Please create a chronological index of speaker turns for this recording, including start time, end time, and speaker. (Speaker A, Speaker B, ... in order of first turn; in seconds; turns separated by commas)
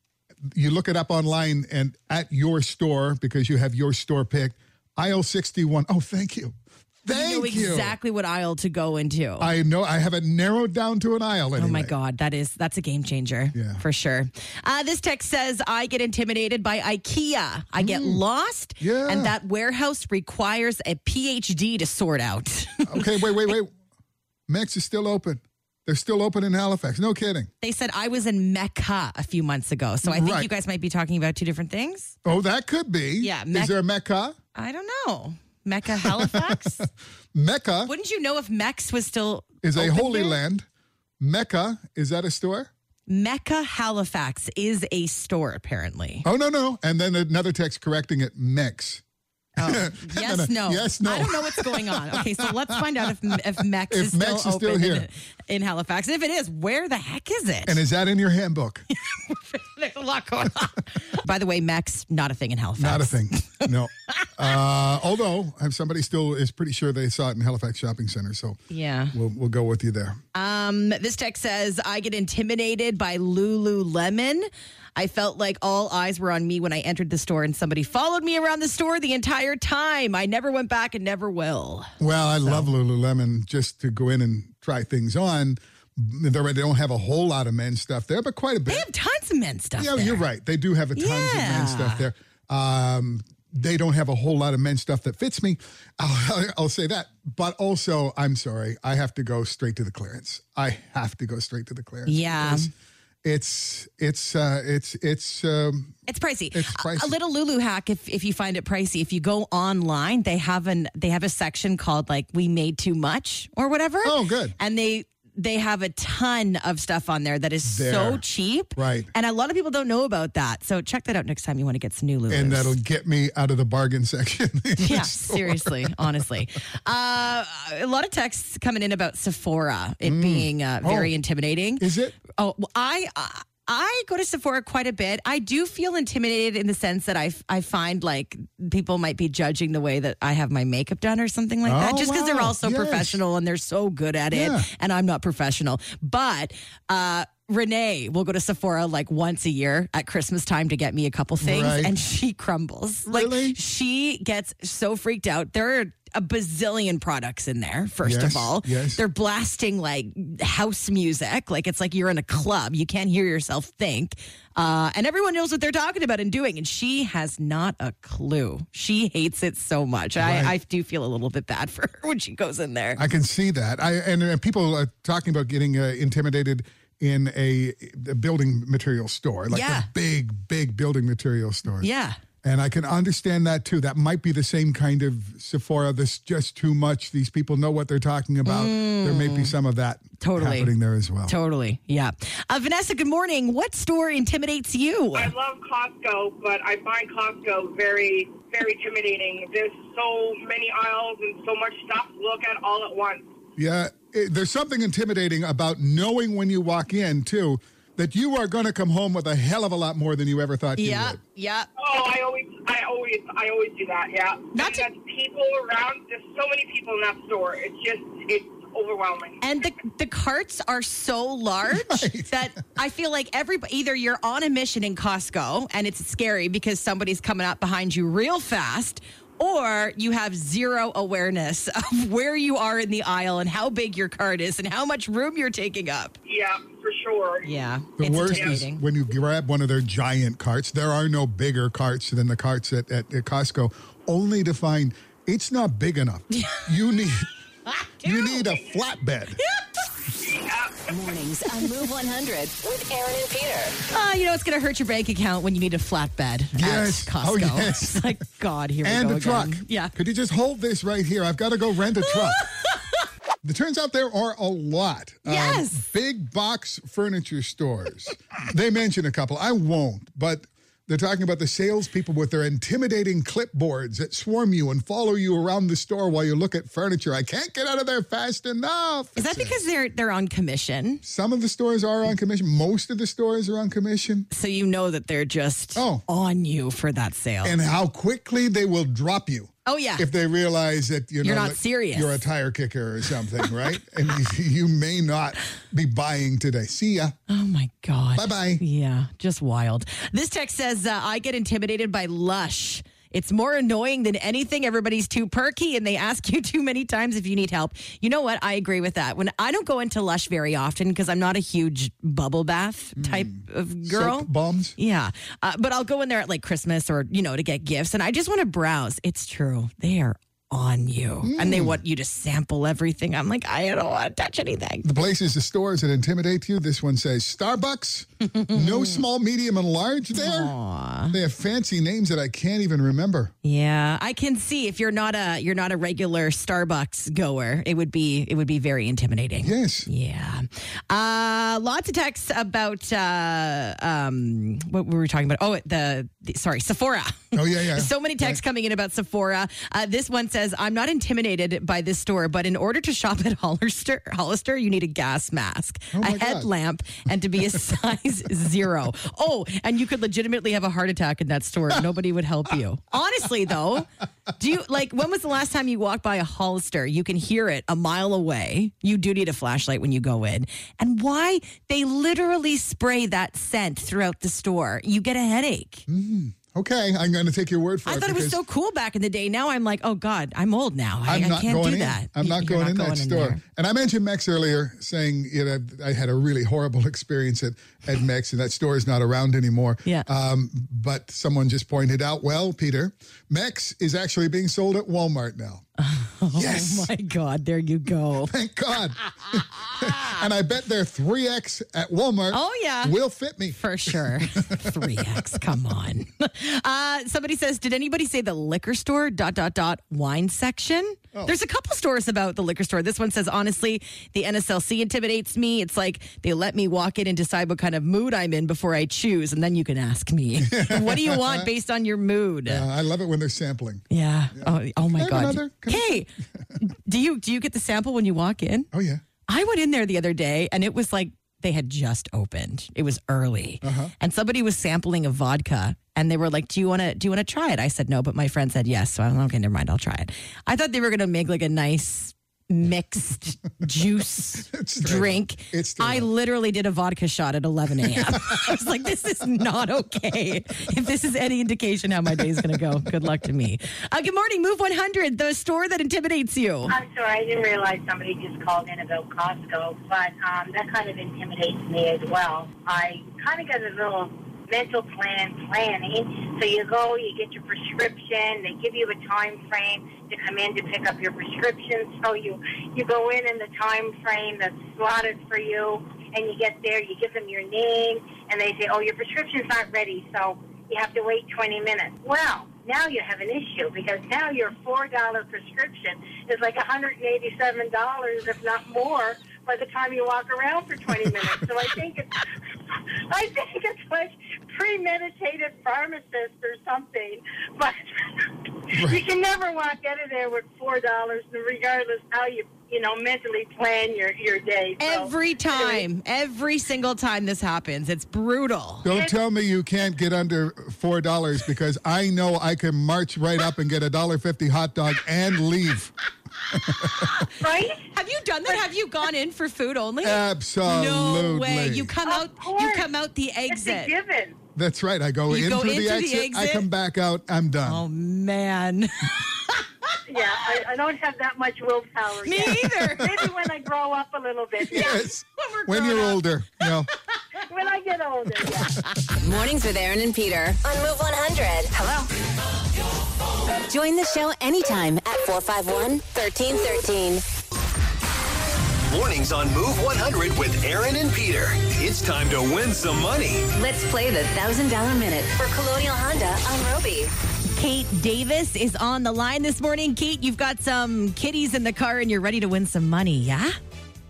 Speaker A: 0.5-8.0, Speaker B: 7.1-9.5, Speaker A: 9.4-11.9, Speaker B: 11.6-23.5, Speaker A: 13.5-13.8, Speaker A: 17.8-18.2, Speaker A: 18.8-19.3, Speaker A: 22.9-23.7, Speaker A: 24.5-27.5, Speaker B: 27.6-32.2, Speaker A: 30.0-30.5, Speaker A: 32.2-34.4, Speaker B: 33.2-33.8, Speaker B: 34.5-36.9, Speaker A: 35.9-37.9, Speaker B: 37.9-40.4, Speaker A: 39.6-40.7, Speaker A: 41.2-42.7, Speaker B: 43.1-46.3, Speaker A: 46.2-49.0, Speaker B: 49.6-57.8, Speaker A: 49.6-53.4, Speaker A: 53.9-55.1, Speaker A: 57.7-58.9, Speaker B: 59.0-64.3, Speaker A: 62.8-68.6, Speaker B: 68.7-69.2, Speaker A: 69.1-70.2, Speaker B: 70.3-81.9, Speaker A: 82.0-88.9, Speaker B: 88.7-90.2, Speaker A: 89.8-102.7, Speaker B: 91.0-92.1, Speaker B: 102.1-102.7, Speaker A: 103.2-107.2, Speaker B: 106.1-122.8, Speaker A: 114.0-114.6, Speaker A: 117.7-118.2, Speaker A: 118.8-119.1, Speaker A: 122.3-126.2, Speaker B: 124.8-173.0, Speaker A: 130.0-131.2, Speaker A: 131.8-132.2, Speaker A: 141.7-143.2, Speaker A: 144.3-144.7, Speaker A: 151.4-152.0, Speaker A: 153.1-153.6, Speaker A: 158.0-159.0, Speaker A: 170.2-170.6, Speaker A: 173.0-181.9, Speaker B: 179.5-179.9, Speaker B: 181.8-182.2, Speaker A: 182.4-191.4, Speaker B: 188.4-189.6, Speaker B: 190.2-190.7, Speaker B: 191.3-195.3, Speaker C: 195.1-203.3, Speaker A: 203.6-211.2, Speaker B: 210.8-211.7, Speaker C: 211.8-219.5, Speaker B: 214.6-214.9, Speaker B: 219.4-236.2, Speaker A: 221.7-222.4, Speaker C: 236.3-237.5, Speaker B: 237.4-238.8, Speaker A: 238.0-247.3, Speaker C: 238.3-238.6, Speaker B: 246.3-246.7, Speaker B: 247.7-248.5, Speaker A: 248.0-249.4, Speaker B: 249.4-249.7, Speaker C: 250.2-250.9, Speaker D: 250.9-253.8, Speaker B: 253.9-259.9, Speaker A: 256.6-258.2, Speaker A: 258.8-262.4, Speaker B: 262.1-262.8, Speaker A: 263.4-279.6, Speaker B: 265.2-265.9, Speaker B: 279.2-281.0, Speaker A: 281.0-284.3, Speaker B: 284.3-287.6, Speaker A: 285.8-286.0, Speaker A: 287.4-297.2, Speaker B: 289.7-290.1, Speaker B: 291.2-292.2, Speaker B: 297.3-324.9, Speaker A: 298.2-298.6, Speaker A: 313.0-314.8, Speaker A: 321.2-321.8, Speaker A: 324.8-330.5, Speaker B: 328.3-329.0, Speaker B: 330.1-331.2, Speaker A: 331.1-333.3, Speaker B: 333.4-375.9, Speaker A: 339.4-339.9, Speaker A: 347.3-348.4, Speaker A: 355.9-356.5, Speaker A: 375.9-378.4, Speaker B: 377.9-383.4, Speaker A: 381.1-395.6, Speaker B: 395.8-398.3, Speaker A: 396.3-396.9, Speaker A: 398.3-405.2, Speaker B: 399.6-400.2, Speaker B: 402.3-403.0, Speaker B: 403.5-422.6, Speaker A: 420.4-421.5, Speaker A: 422.5-426.5, Speaker B: 423.9-428.7, Speaker A: 428.7-429.0, Speaker B: 429.3-456.7, Speaker A: 433.6-433.9, Speaker A: 444.5-446.1, Speaker A: 447.9-448.6, Speaker E: 456.7-505.8, Speaker A: 498.7-499.0, Speaker B: 504.8-508.9, Speaker A: 508.8-515.9, Speaker E: 508.9-509.2, Speaker A: 516.5-517.1, Speaker B: 516.7-517.3, Speaker E: 517.4-517.9, Speaker B: 517.9-523.9, Speaker A: 520.0-521.9, Speaker E: 522.0-522.9, Speaker E: 523.5-524.4, Speaker A: 524.5-527.8, Speaker B: 525.3-526.7, Speaker B: 527.6-529.7, Speaker E: 530.1-535.0, Speaker B: 532.2-533.2, Speaker A: 532.7-533.1, Speaker A: 534.7-536.9, Speaker B: 534.7-536.7, Speaker E: 537.5-538.7, Speaker D: 539.2-542.1, Speaker D: 543.7-547.2, Speaker F: 548.9-553.5, Speaker D: 553.5-557.1, Speaker B: 557.5-563.6